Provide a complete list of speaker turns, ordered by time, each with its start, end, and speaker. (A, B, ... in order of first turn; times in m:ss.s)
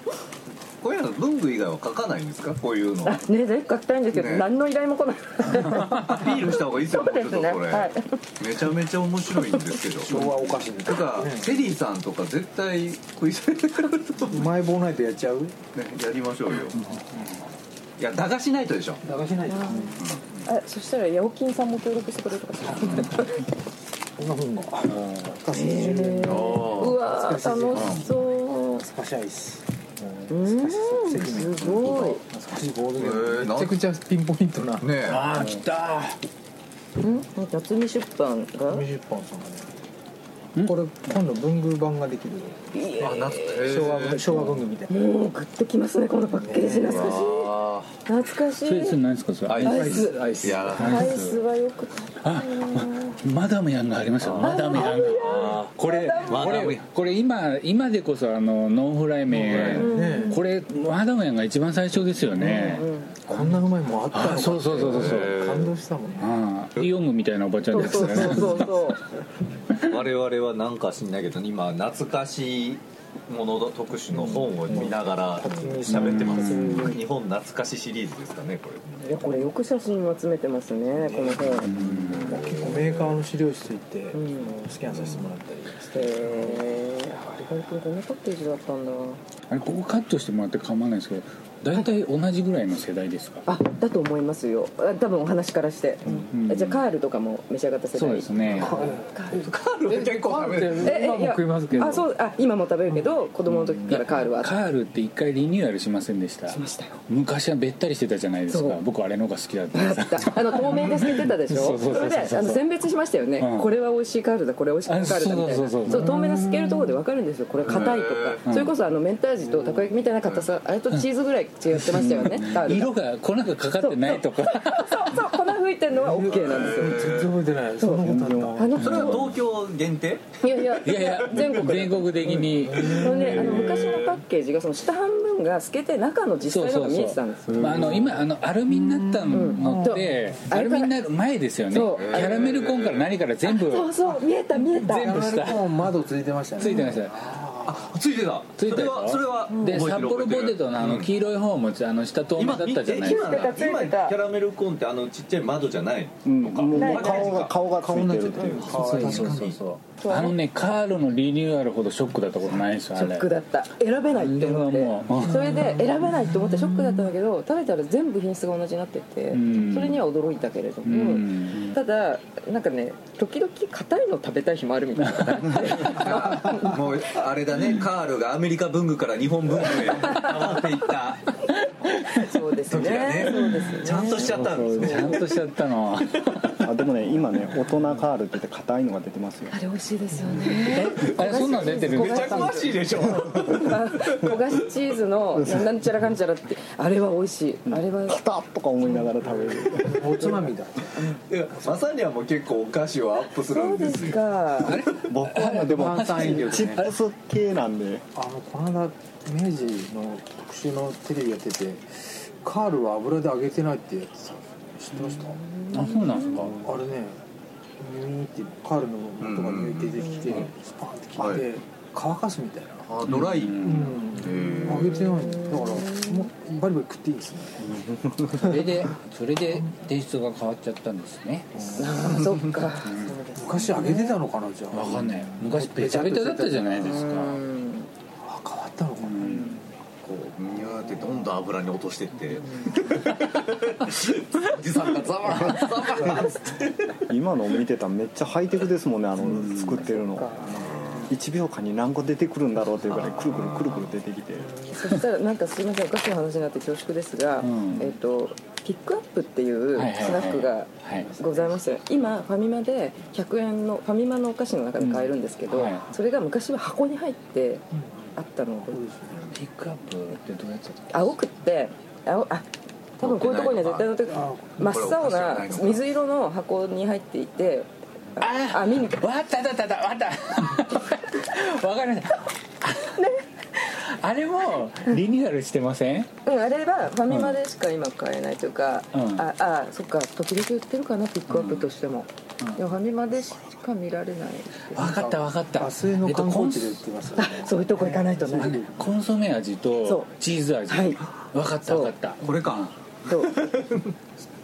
0:00.8-0:03.2 A
0:03.0-0:08.2 B
0:04.1-0:04.5 A
0:05.7-0:10.3 A
0:10.1-0:11.5 C
0:10.1-0:10.7 D
0:10.8-0:14.5 A
0:14.3-0:15.6 C
0:15.7-0:16.8 A
0:18.0-0:19.0 A
0:19.0-0:20.0 C
0:19.5-0:23.5 B
0:20.0-0:20.4 A
0:22.7-0:23.1 A
0:24.2-0:29.7 C
0:24.9-0:25.2 D
0:25.5-0:28.9 B
0:26.2-0:27.0 A
0:27.7-0:28.1 A
0:30.3-0:34.9 C
0:30.3-0:32.2 B
0:33.0-0:33.8 A
0:34.8-0:35.3 A
0:35.0-0:36.2 D
0:37.0-0:38.9 B
0:38.7-0:39.7 C
0:40.6-0:43.0 C
0:42.7-0:43.7 B
0:43.0-0:44.3 A
0:43.6-0:44.9 C
0:44.9-0:47.5 B
0:46.3-0:47.2 C
0:46.8-0:48.0 A
0:48.1-0:49.0 B
0:48.6-0:51.4 D
0:49.5-0:51.2 A
0:49.6-0:53.2 B
0:49.7-0:50.7 C
0:52.2-1:05.5 D
0:54.2-0:54.6 A
0:54.4-0:56.7 B
0:55.3-0:55.7 A
0:56.3-0:56.8 A
0:59.3-1:00.4 C
0:59.6-1:00.4 B
1:02.4-1:02.8 A
1:02.6-1:03.2 B
1:03.2-1:06.4 C
1:04.6-1:05.7 A
1:06.2-1:08.9 D
1:07.7-1:09.0 B
1:07.9-1:08.7 A
1:09.7-1:19.1 A
1:14.3-1:17.1 C
1:15.9-1:17.0 D
1:19.0-1:21.8 B
1:21.0-1:26.7 C
1:21.6-1:22.4 D
1:21.8-1:23.2 A
1:24.1-1:24.5 B
1:25.9-1:29.2 B
1:29.5-1:33.5 D
1:33.5-1:39.4 B
1:36.1-1:36.8 D
1:37.9-1:38.9 D
1:38.5-1:39.2 C
1:39.3-1:41.0 A
1:39.9-1:42.1 C
1:40.8-1:44.5 B
1:43.5-1:52.6 D
1:46.5-1:47.0 B
1:48.5-1:48.8 B
1:49.7-2:02.9 B
1:53.4-1:53.7 D
1:54.8-1:56.8 D
1:57.7-1:58.4 A
1:58.4-1:58.7 D
2:01.7-2:05.2 D
2:03.8-2:07.1 B
2:06.0-2:08.7 C
2:06.2-2:07.3 A
2:07.8-2:09.4 B
2:08.1-2:08.6 E
2:08.8-2:10.3 A
2:08.9-2:09.2 D
2:10.4-2:18.1 B
2:10.8-2:13.5 D
2:12.3-2:13.9 C
2:12.9-2:14.2 A
2:16.4-2:24.0 D
2:17.6-2:18.1 E
2:19.3-2:20.9 B
2:19.5-2:20.4 C
2:21.7-2:22.4 B
2:21.9-2:23.2 A
2:23.4-2:25.2 B
2:24.7-2:25.8 D
2:24.9-2:28.0 C
2:26.6-2:27.3 D
2:27.6-2:31.1 A
2:28.6-2:33.5 D
2:32.4-2:37.7 A
2:33.0-2:34.2 B
2:36.2-2:39.0 E
2:36.4-2:37.0 D
2:36.7-2:37.3 B
2:37.0-2:39.5 C
2:38.2-2:39.6 A
2:38.4-2:38.7 B
2:38.6-2:43.3 D
2:40.0-2:40.4 B
2:43.0-2:56.8 B
2:44.1-2:45.6 D
2:45.4-2:45.9 C
2:49.3-2:50.0 D
2:50.8-2:51.8 D
2:55.0-2:56.7 D
2:55.7-3:01.4 A
2:59.8-3:00.6 D
3:01.9-3:05.2 B
3:02.7-3:05.4 A
3:03.3-3:06.9 D
3:06.6-3:09.6 E
3:09.5-3:18.2 B
3:10.4-3:12.7 D
3:10.5-3:14.4 A
3:15.4-3:15.7 E
3:17.7-3:20.4 E
3:19.3-3:21.9 C
3:20.2-3:21.2 B
3:21.3-3:25.1 A
3:23.4-3:24.8 B
3:24.6-3:27.0 D
3:25.0-3:28.0 E
3:25.6-3:26.9 C
3:28.1-3:35.4 C
3:35.1-3:36.5 B
3:35.7-3:36.6 D
3:36.5-3:37.2 C
3:37.8-3:42.9 C
3:39.2-3:40.5 A
3:40.0-3:40.4 B
3:41.2-3:41.5 A
3:42.9-3:45.1 A
3:43.0-3:44.2 D
3:43.6-3:47.8 C
3:44.9-3:46.2 B
3:47.8-3:48.5 A
3:48.3-3:52.1 D
3:51.6-3:52.2 C
3:51.8-3:54.2 B
3:52.0-3:52.5 A
3:52.8-3:53.2 D
3:53.4-3:57.2 C
3:54.7-3:57.4 D
3:56.8-3:57.9 B
3:58.2-3:59.5 C
3:59.0-3:59.6 D
4:00.0-4:07.0 A
4:07.1-4:14.6 E
4:09.2-4:09.8 D
4:09.8-4:10.7 B
4:10.6-4:11.1 A
4:12.9-4:13.2 D
4:13.1-4:13.8 A
4:14.4-4:27.6 B
4:17.4-4:18.0 D
4:19.8-4:21.1 D
4:24.8-4:25.8 D
4:28.2-4:28.8 B
4:28.7-4:29.4 C
4:29.2-4:31.1 D
4:30.9-4:32.5 B
4:33.0-4:39.0 B
4:33.0-4:33.9 A
4:34.1-4:34.8 C
4:34.6-4:35.9 A
4:38.2-4:46.1 D
4:43.0-4:43.2 B
4:46.2-4:54.9 B
4:47.1-4:47.4 D
4:48.9-4:49.3 D
4:51.3-4:51.7 D
4:54.7-4:56.8 D
4:54.8-4:58.9 C
4:57.2-4:58.6 B
4:58.3-5:02.7 D
4:59.8-5:00.1 B
5:00.7-5:01.1 B
5:01.6-5:01.9 B
5:02.2-5:03.9 A
5:03.1-5:03.4 B